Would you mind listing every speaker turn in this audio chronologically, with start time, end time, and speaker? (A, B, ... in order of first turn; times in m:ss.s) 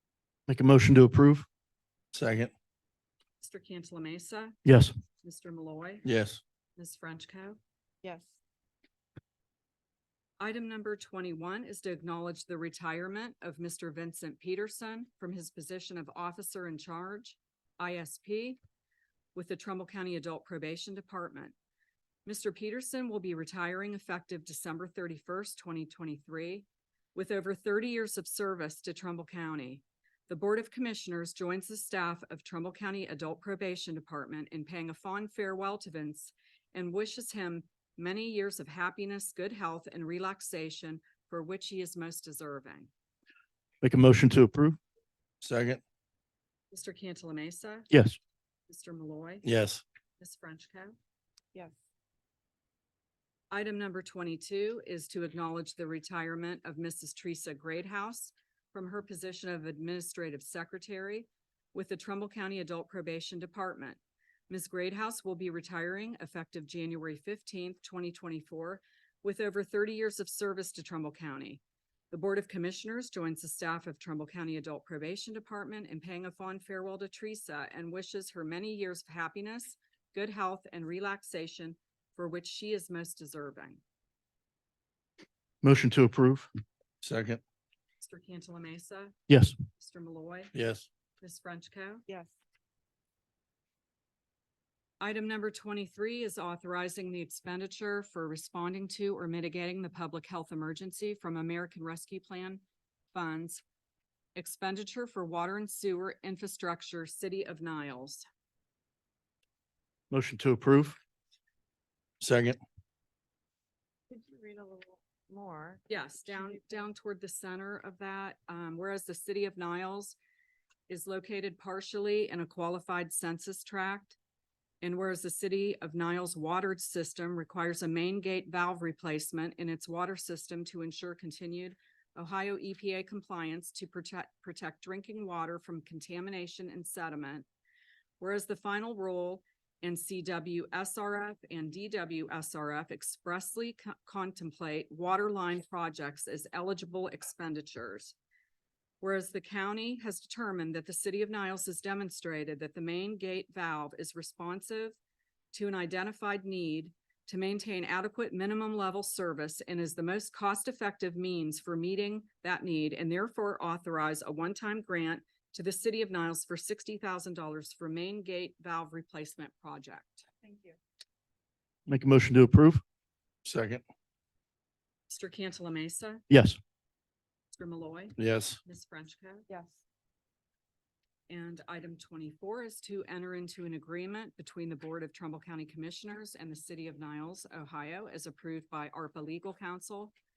0:00.5-0:01.4 A
0:02.1-0:02.5 B
0:03.4-0:04.6 C
0:04.6-0:04.9 A
0:05.2-0:06.1 C
0:06.0-0:06.4 B
0:06.8-0:07.6 C
0:08.0-0:08.4 D
0:10.4-0:18.6 C
0:19.3-0:21.5 C
0:22.2-0:42.9 C
0:43.8-0:44.8 A
0:45.4-0:45.8 B
0:46.7-0:47.9 C
0:47.9-0:48.2 A
0:48.7-0:49.4 C
0:49.4-0:49.8 B
0:50.2-0:50.9 C
0:53.5-1:23.8 C
1:25.6-1:26.5 A
1:27.0-1:27.4 B
1:28.0-1:29.1 C
1:29.3-1:29.6 A
1:29.8-1:30.5 C
1:30.5-1:30.8 B
1:31.2-1:32.0 C
1:32.1-1:32.4 D
1:35.0-1:42.6 C
1:43.1-1:43.6 C
1:44.4-1:48.2 C
1:50.1-1:51.0 A
1:52.2-1:52.6 B
1:54.1-1:56.7 D
1:55.9-2:00.2 C
2:00.9-2:04.2 C
2:04.8-2:17.4 C
2:18.2-2:28.1 C
2:29.0-2:35.0 C
2:35.5-2:50.3 C
2:50.4-2:50.8 D
2:51.9-2:52.8 A
2:53.4-2:53.8 B
2:55.1-2:56.2 C
2:56.3-2:56.6 A
2:57.5-2:59.4 C
2:58.2-2:58.6 B
2:59.5-2:59.8 D
3:01.3-3:10.1 C